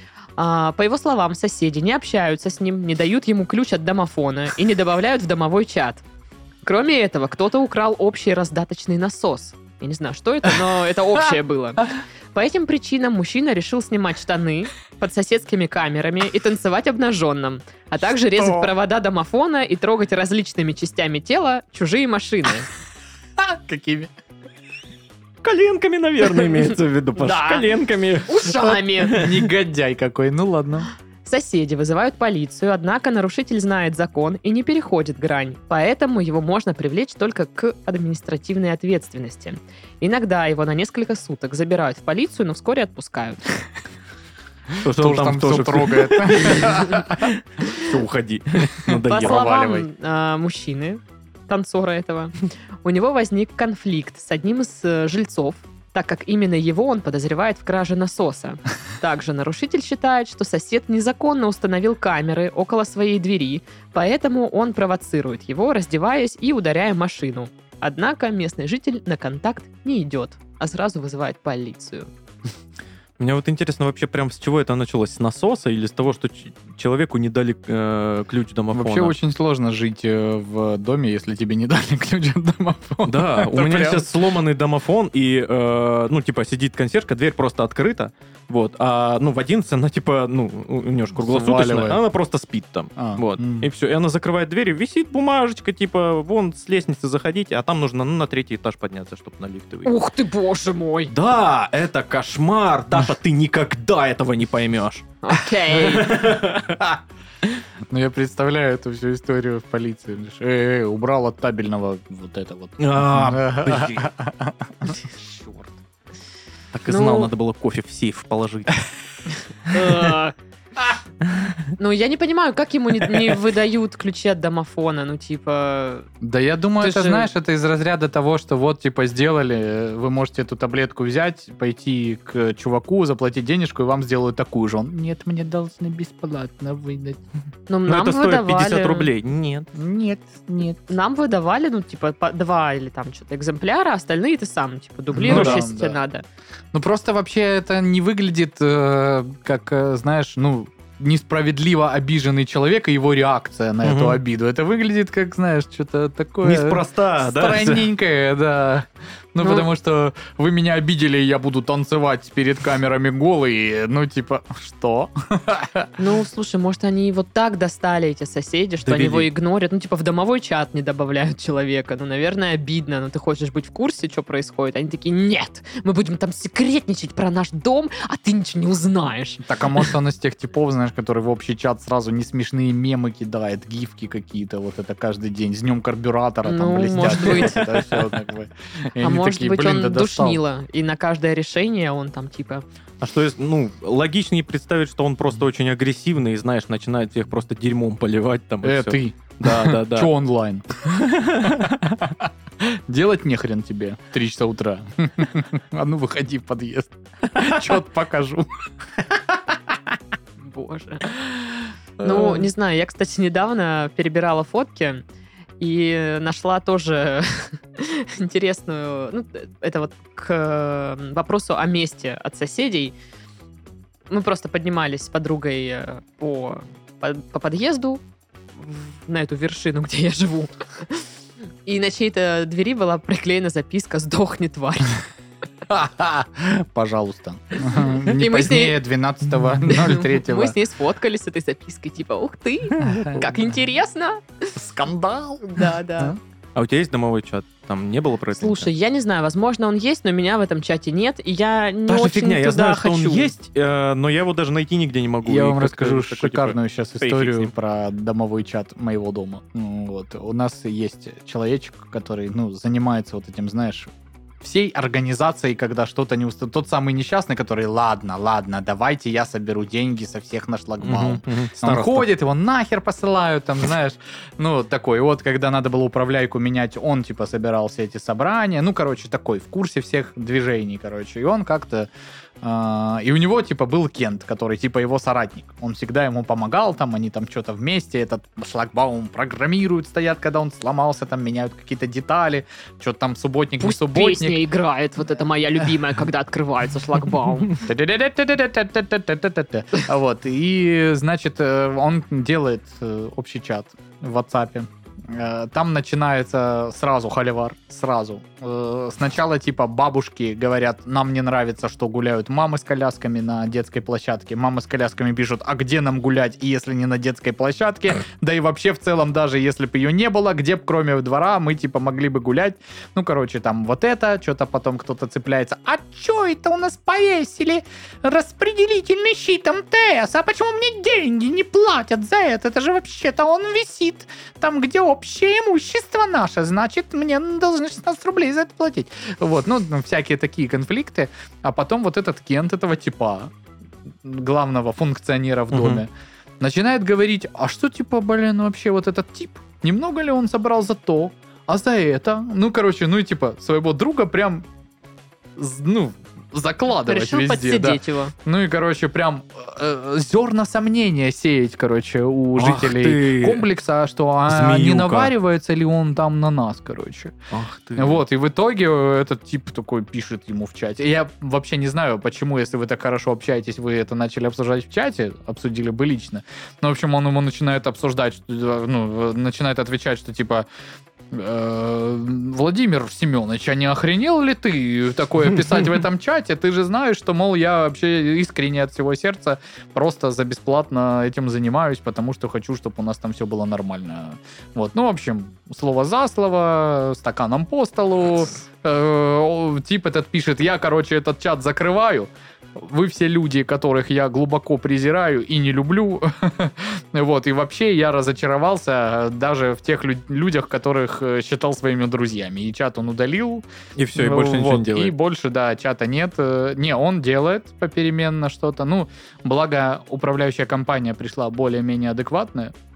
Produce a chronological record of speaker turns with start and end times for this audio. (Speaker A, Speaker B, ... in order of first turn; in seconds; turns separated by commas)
Speaker A: 0.4-6.0, Speaker A: 6.6-22.7, Speaker B: 18.3-18.7, Speaker B: 23.4-24.1, Speaker C: 25.4-29.4, Speaker A: 27.2-27.7, Speaker A: 28.3-29.2, Speaker B: 29.1-30.9, Speaker A: 31.2-43.6, Speaker C: 44.8-49.5, Speaker B: 44.8-47.3, Speaker B: 48.9-49.9, Speaker A: 49.1-72.1, Speaker C: 73.2-79.1, Speaker B: 78.7-84.1, Speaker C: 83.0-99.9, Speaker B: 91.2-92.0, Speaker B: 93.0-93.7, Speaker A: 99.8-101.1, Speaker C: 101.1-105.1, Speaker A: 105.2-106.2, Speaker C: 105.8-106.8, Speaker B: 106.0-107.0, Speaker B: 107.9-115.7, Speaker C: 112.8-114.1, Speaker C: 116.7-118.9, Speaker A: 116.9-117.3, Speaker A: 119.7-120.3, Speaker C: 119.7-120.1, Speaker A: 121.8-126.1, Speaker B: 126.2-137.2, Speaker A: 126.8-127.3, Speaker A: 137.7-139.1, Speaker C: 137.9-139.7, Speaker B: 139.7-140.9, Speaker A: 140.9-146.2, Speaker B: 145.1-146.0, Speaker C: 145.2-145.6, Speaker B: 146.7-165.9, Speaker C: 153.8-154.2, Speaker C: 156.4-157.8, Speaker A: 159.4-159.7, Speaker A: 166.0-179.9, Speaker C: 168.8-169.3, Speaker B: 179.4-190.4, Speaker A: 186.4-187.7, Speaker C: 187.1-187.4, Speaker A: 189.0-192.6, Speaker C: 193.0-200.1, Speaker B: 198.6-208.5, Speaker C: 200.9-201.7, Speaker B: 209.0-209.8, Speaker A: 210.4-211.2, Speaker A: 212.0-215.0, Speaker B: 212.0-212.4, Speaker A: 215.6-222.9, Speaker A: 224.1-228.0, Speaker A: 228.6-231.1, Speaker A: 231.6-235.0, Speaker B: 235.7-240.6, Speaker A: 237.7-238.8, Speaker A: 239.7-244.6, Speaker C: 242.8-243.1, Speaker B: 242.8-243.2, Speaker B: 244.6-246.2, Speaker A: 245.5-246.2, Speaker C: 246.6-248.7, Speaker A: 248.4-253.3, Speaker C: 251.9-257.5, Speaker B: 255.2-263.9, Speaker B: 264.4-281.9, Speaker C: 270.8-272.1, Speaker B: 282.4-294.4, Speaker A: 293.6-297.6, Speaker B: 297.6-343.3, Speaker B: 344.0-354.4, Speaker C: 345.5-345.8, Speaker B: 355.4-367.2, Speaker A: 356.8-358.1, Speaker C: 362.4-363.5, Speaker C: 364.3-365.1, Speaker C: 367.3-368.0, Speaker B: 367.8-380.5, Speaker B: 381.1-422.5, Speaker C: 413.8-414.9